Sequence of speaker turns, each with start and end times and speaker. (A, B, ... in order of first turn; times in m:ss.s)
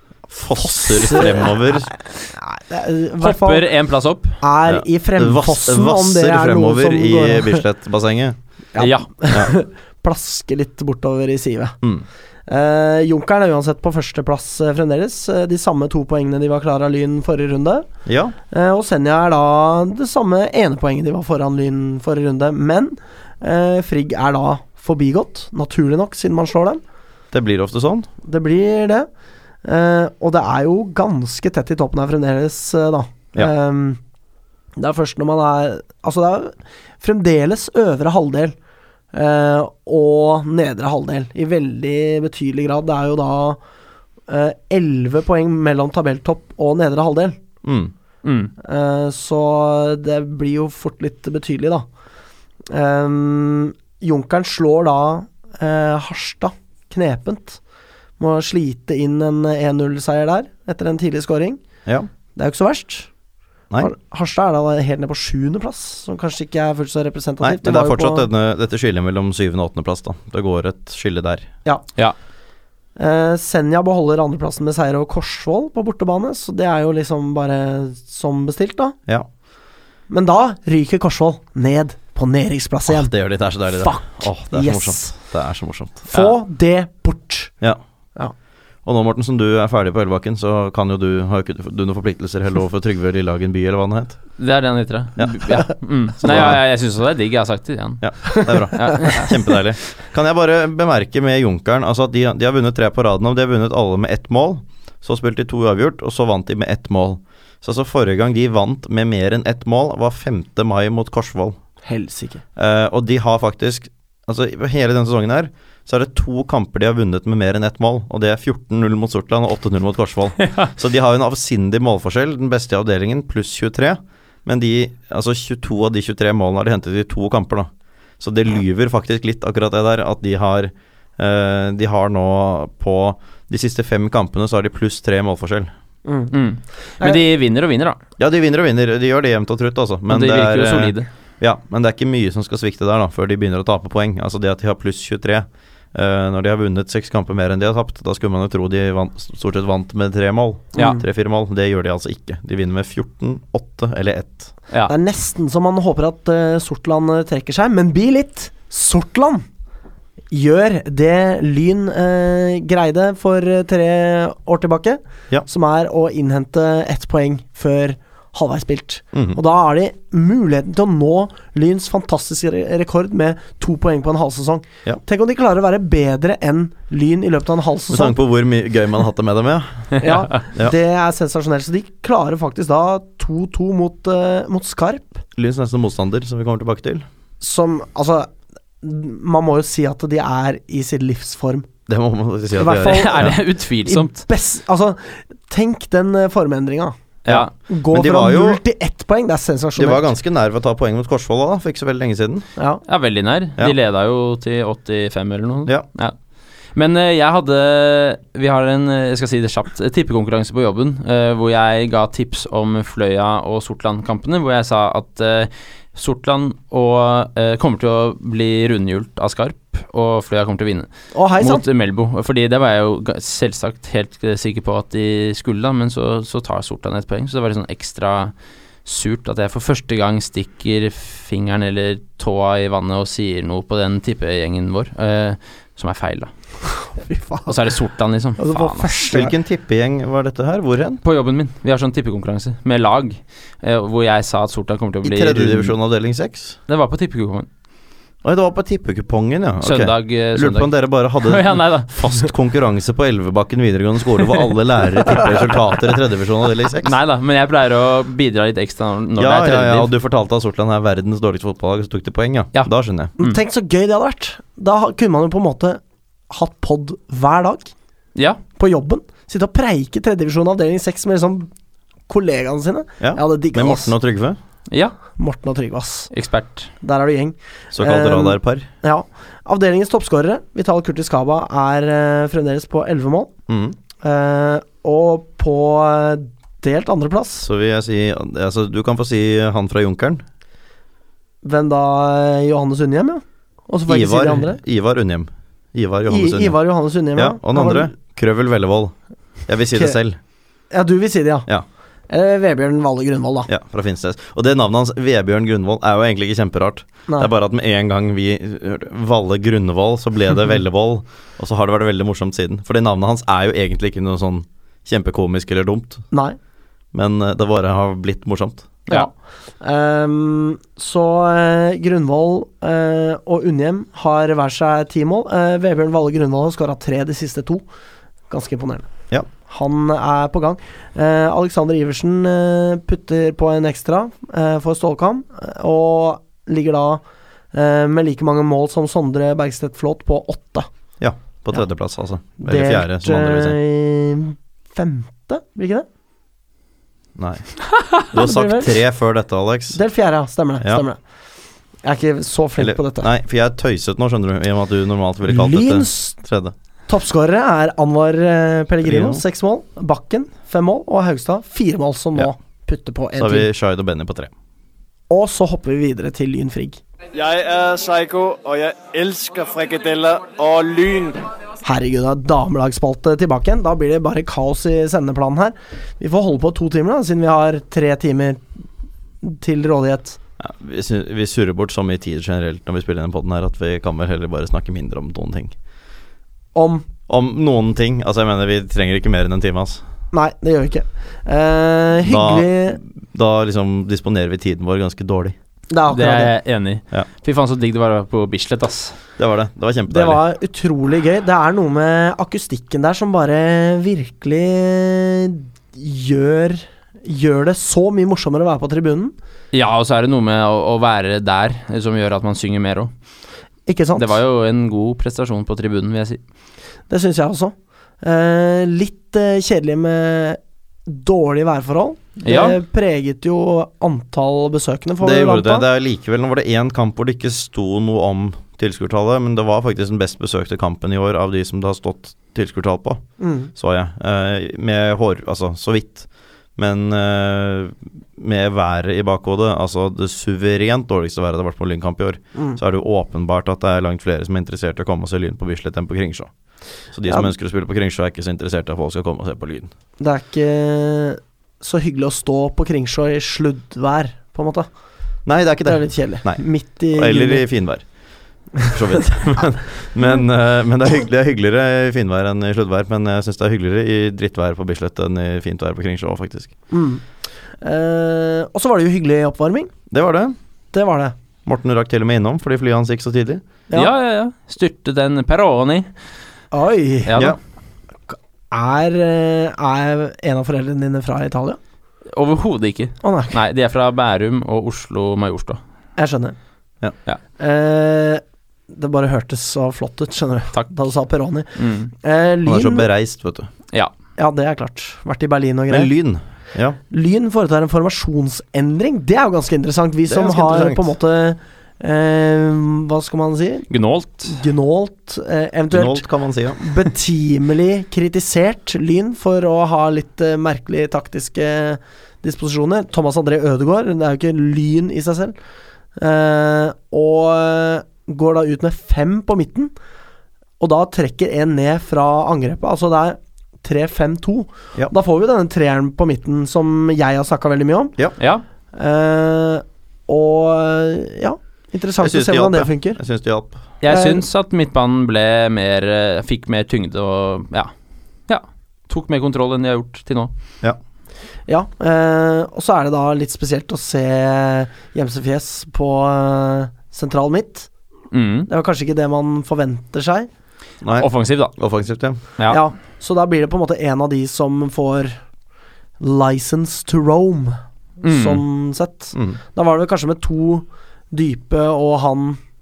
0:00.3-0:01.9 A
0:00.6-0:03.7 B
0:03.2-0:04.4 C
0:04.4-0:07.6 B
0:04.7-0:08.4 A
0:08.7-0:11.8 B
0:08.8-0:09.1 C
0:12.5-0:17.9 B
0:18.1-0:18.4 A
0:18.5-0:26.8 B
0:27.3-0:28.1 A
0:28.2-0:29.1 B
0:29.6-0:34.0 B
0:34.8-0:38.6 B
0:39.1-0:43.6 B
0:44.3-0:47.4 B
0:47.6-0:47.9 A
0:48.2-0:48.5 C
0:48.6-0:51.8 B
0:52.7-0:57.6 B
0:58.2-1:01.6 B
1:02.4-1:03.1 B
1:03.8-1:08.3 B
1:07.4-1:11.5 A
1:13.0-1:19.0 B
1:20.1-1:25.2 B
1:22.9-1:26.0 A
1:26.0-1:27.5 B
1:28.8-1:34.2 A
1:34.4-1:39.3 C
1:35.2-1:35.6 A
1:36.2-1:36.6 A
1:38.0-1:51.6 A
1:51.8-1:52.4 B
1:52.6-2:15.7 A
2:16.0-2:16.3 B
2:16.3-2:18.0 C
2:18.2-2:34.5 A
2:20.1-2:21.1 C
2:30.8-2:31.0 B
2:34.9-2:39.5 B
2:40.3-2:58.2 B
2:49.1-2:49.4 A
2:57.9-3:00.7 A
3:00.0-3:05.2 B
3:05.4-3:07.1 A
3:07.4-3:08.3 B
3:08.8-3:11.7 B
3:11.9-3:13.4 A
3:12.6-3:17.0 B
3:12.8-3:14.2 C
3:17.3-3:17.5 C
3:17.3-3:18.6 A
3:17.6-3:20.1 B
3:19.8-3:22.5 A
3:22.6-3:22.8 B
3:22.9-3:26.2 C
3:26.8-3:48.3 C
3:41.1-3:41.6 B
3:48.8-3:56.3 C
3:56.9-3:57.6 B
3:57.5-3:58.9 C
3:58.4-3:59.3 B
3:59.1-4:01.0 A
4:01.0-4:05.7 C
4:05.0-4:06.6 A
4:06.7-4:07.5 C
4:08.2-4:16.9 A
4:09.6-4:12.2 C
4:16.8-4:19.9 C
4:19.2-4:23.1 A
4:22.6-4:23.4 C
4:23.2-4:27.7 B
4:28.2-4:28.4 C
4:28.6-4:31.5 B
4:32.1-4:33.9 B
4:33.0-4:34.4 A
4:35.2-4:36.1 B
4:36.1-4:36.7 C
4:36.8-4:43.3 B
4:37.7-4:38.7 A
4:43.5-4:43.8 A
4:44.0-4:47.5 B
4:47.4-4:50.2 A
4:51.4-4:54.6 B
4:53.9-4:56.6 A
4:56.1-4:57.9 B
4:57.2-4:59.0 A
4:59.5-5:00.2 A
5:00.7-5:01.5 B
5:02.1-5:03.5 B
5:03.5-5:16.0 A
5:16.1-5:16.4 B
5:16.9-5:18.7 A
5:18.9-5:27.6 B
5:28.3-5:28.9 B
5:29.5-5:37.0 B
5:37.5-5:40.7 B
5:41.0-5:43.6 A
5:42.4-5:45.9 B
5:47.2-5:49.8 A
5:48.1-5:48.7 B
5:49.7-5:51.0 B
5:51.8-5:53.1 B
5:52.6-5:56.5 A
5:55.3-5:56.2 B
5:56.9-6:03.5 B
5:58.8-5:59.2 A
6:03.2-6:04.3 A
6:05.1-6:06.8 B
6:07.2-6:11.3 D
6:11.6-6:18.4 B
6:19.2-6:20.2 B
6:20.4-6:25.5 A
6:26.6-6:26.9 B
6:27.1-6:29.8 A
6:30.1-6:32.8 B
6:32.0-6:35.4 A
6:35.7-6:36.3 B
6:35.9-6:39.0 C
6:39.2-6:40.2 A
6:39.9-6:49.2 B
6:49.5-6:52.9 C
6:53.7-6:54.2 B
6:54.0-6:56.2 C
6:56.9-7:05.7 B
7:02.2-7:02.6 C
7:05.0-7:26.3 A
7:13.2-7:13.5 B
7:26.9-7:29.7 A
7:30.0-7:34.7 B
7:35.3-7:37.9 A
7:35.6-7:37.4 B
7:38.6-7:46.6 A
7:46.7-7:47.0 B
7:47.6-7:49.7 B
7:49.9-7:50.4 A
7:50.7-7:51.2 B
7:51.5-7:53.4 A
7:53.7-7:55.9 C
7:56.5-7:57.2 B
7:57.1-7:57.4 C
7:58.1-8:01.6 B
8:02.1-8:05.6 C
8:03.0-8:03.4 B
8:06.0-8:06.4 B
8:07.4-8:12.9 B
8:11.6-8:11.9 C
8:12.5-8:13.5 A
8:14.2-8:15.9 B
8:15.7-8:16.8 A
8:16.9-8:23.7 B
8:20.1-8:20.9 A
8:23.7-8:24.4 C
8:24.2-8:35.4 B
8:25.7-8:26.6 A
8:36.0-8:39.7 B
8:40.6-8:48.0 B
8:48.2-8:48.4 C
8:48.7-8:53.0 B
8:52.0-8:53.6 A
8:53.8-8:57.7 C
8:53.9-8:54.2 B
8:58.3-9:00.3 C
9:01.5-9:07.7 B
9:08.1-9:08.5 C
9:08.5-9:10.3 B
9:10.8-9:12.2 A
9:11.0-9:11.6 C
9:12.5-9:15.2 B
9:16.0-9:22.4 B
9:18.0-9:18.4 C
9:19.2-9:19.4 A